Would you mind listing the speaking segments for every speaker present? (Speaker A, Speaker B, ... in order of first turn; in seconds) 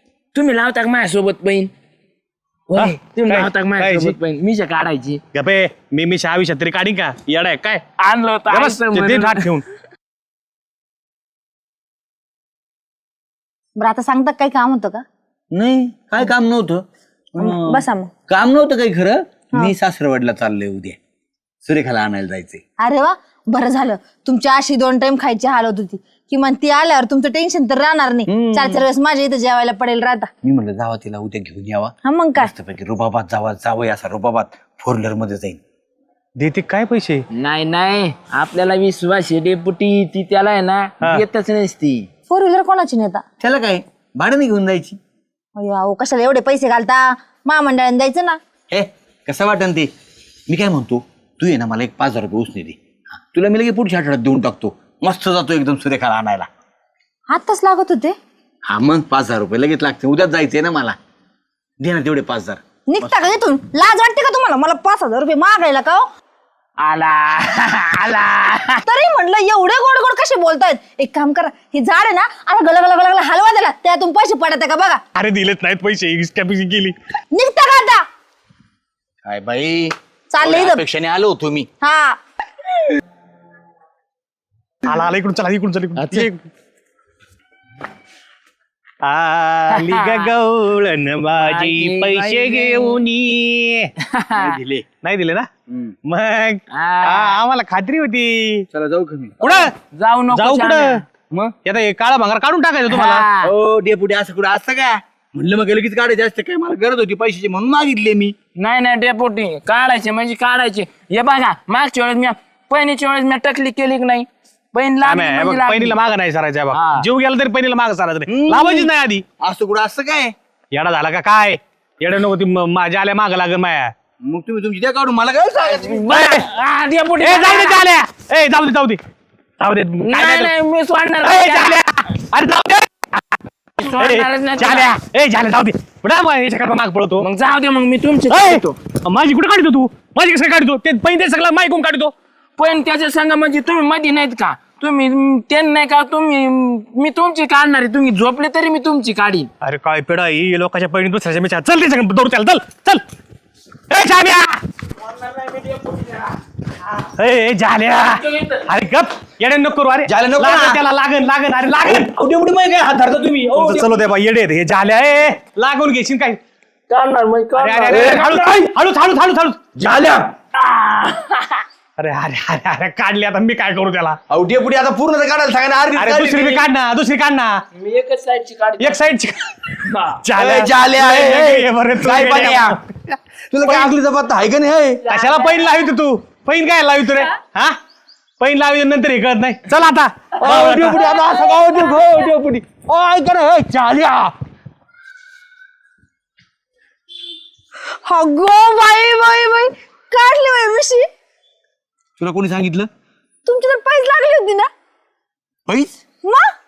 Speaker A: 0.3-1.7, 2.7-5.2, 8.0-9.6, 37.3-42.1, 66.8-68.8, 86.0-86.3, 89.7-90.3, 91.3-93.0, 94.0-94.6, 96.7-97.4, 99.4-101.0, 102.9-103.5, 108.5-116.0, 116.7-117.1, 125.6-127.8, 130.0-131.9, 133.8-134.9, 137.2-138.8, 142.6-149.5, 155.1-156.3, 166.9-168.6, 170.5-171.6, 177.7-179.0, 179.8-180.2, 185.0-185.8
Speaker B: 2.7-4.2, 5.3-7.8, 8.5-9.7, 36.4-37.2, 75.1-76.9, 84.8-86.4, 89.0-93.9, 95.0-95.5, 96.0-98.7, 99.4-99.7, 100.3-101.0, 101.6-103.3, 115.0-119.2, 120.7-123.9, 126.1-126.5, 127.2-129.0, 129.6-130.5, 131.2-133.2, 133.9-137.3, 138.3-142.1, 149.6-153.0, 153.9-154.6, 157.0-162.1, 163.6-166.4, 167.6-169.6, 172.0-174.2, 175.9-177.6, 178.8-179.7, 180.2-182.8, 183.6-183.9, 185.1-187.8, 188.4-191.0
Speaker C: 13.8-15.0, 17.4-18.1, 22.8-30.3, 32.0-32.5, 42.3-43.2, 45.5-48.4, 57.3-58.1, 62.9-66.0, 68.8-75.0, 77.3-78.0, 80.3-80.8, 81.8-82.2, 198.0-201.1, 203.4-204.7
Speaker D: 15.5-21.0, 21.6-22.6, 28.3-28.8, 30.4-35.6, 43.4-45.0, 48.7-49.9, 50.5-56.5, 58.7-61.0, 61.8-63.3, 79.2-81.7, 94.3-94.9, 95.7-95.9, 98.7-99.4, 103.4-108.4, 118.3-120.3, 124.2-126.1, 160.1-160.8, 161.8-164.0, 169.8-170.3, 174.3-176.6, 180.4-182.8, 183.5-185.0, 190.4-194.3, 202.2-202.9, 205.7-206.0